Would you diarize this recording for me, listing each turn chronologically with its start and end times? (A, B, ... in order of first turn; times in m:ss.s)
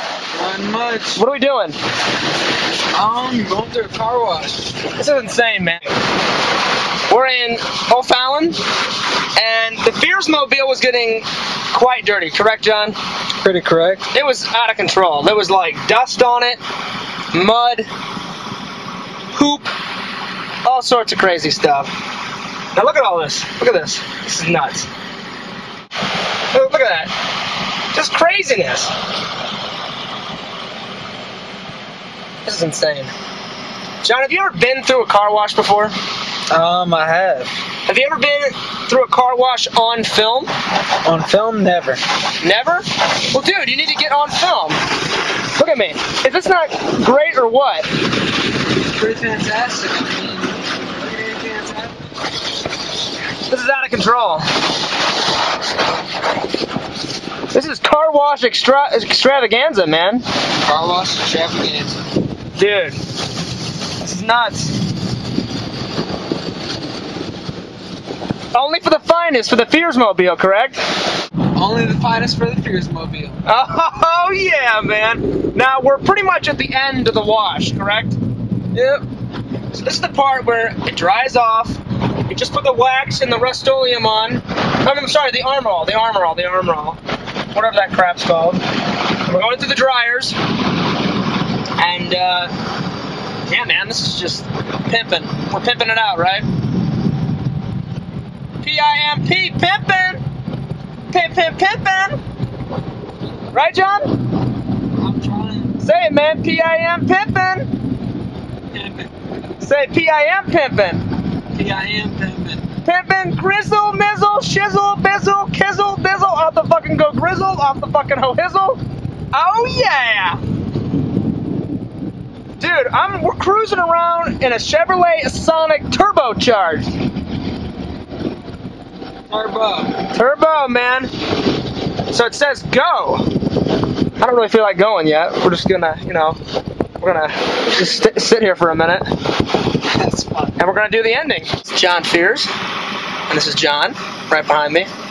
0:00.3-0:01.2 A
0:01.2-0:01.8 B
0:02.9-0:04.8 A
0:04.8-0:05.9 B
0:07.1-0:08.6 B
0:09.4-0:13.0 B
0:13.4-0:14.1 A
0:14.1-0:16.6 B
0:17.3-0:17.9 B
0:19.3-0:19.7 B
0:20.6-0:21.9 B
0:22.8-0:24.9 B
0:26.5-0:27.1 B
0:27.9-0:28.9 B
0:32.4-0:33.1 B
0:34.0-0:36.0 B
0:36.5-0:37.6 A
0:37.9-0:40.5 B
0:41.0-0:42.0 A
0:42.4-0:44.8 B
0:45.5-0:47.9 B
0:48.9-0:52.0 A
0:53.5-0:54.5 B
0:57.5-1:00.2 B
1:00.6-1:02.0 A
1:02.6-1:03.0 B
1:04.0-1:04.8 B
1:08.5-1:10.8 B
1:11.6-1:13.4 A
1:13.4-1:18.2 B
1:18.7-1:19.0 B
1:19.7-1:27.0 B
1:27.5-1:30.4 B
1:31.8-1:32.5 B
1:33.5-1:36.5 B
1:38.6-1:40.2 B
1:41.1-1:42.2 B
1:43.5-1:44.2 B
1:45.0-1:45.8 A
1:45.8-1:47.7 B
1:48.7-1:49.3 A
1:49.6-1:51.1 B
1:51.5-1:52.7 A
1:52.8-1:58.8 B
1:59.3-2:00.4 B
2:02.6-2:06.9 B
2:09.3-2:10.0 A
2:10.1-2:11.1 B
2:12.1-2:13.3 B
2:14.2-2:16.4 B
2:17.0-2:19.1 B
2:19.9-2:20.6 A
2:20.6-2:22.5 B
2:23.3-2:24.9 B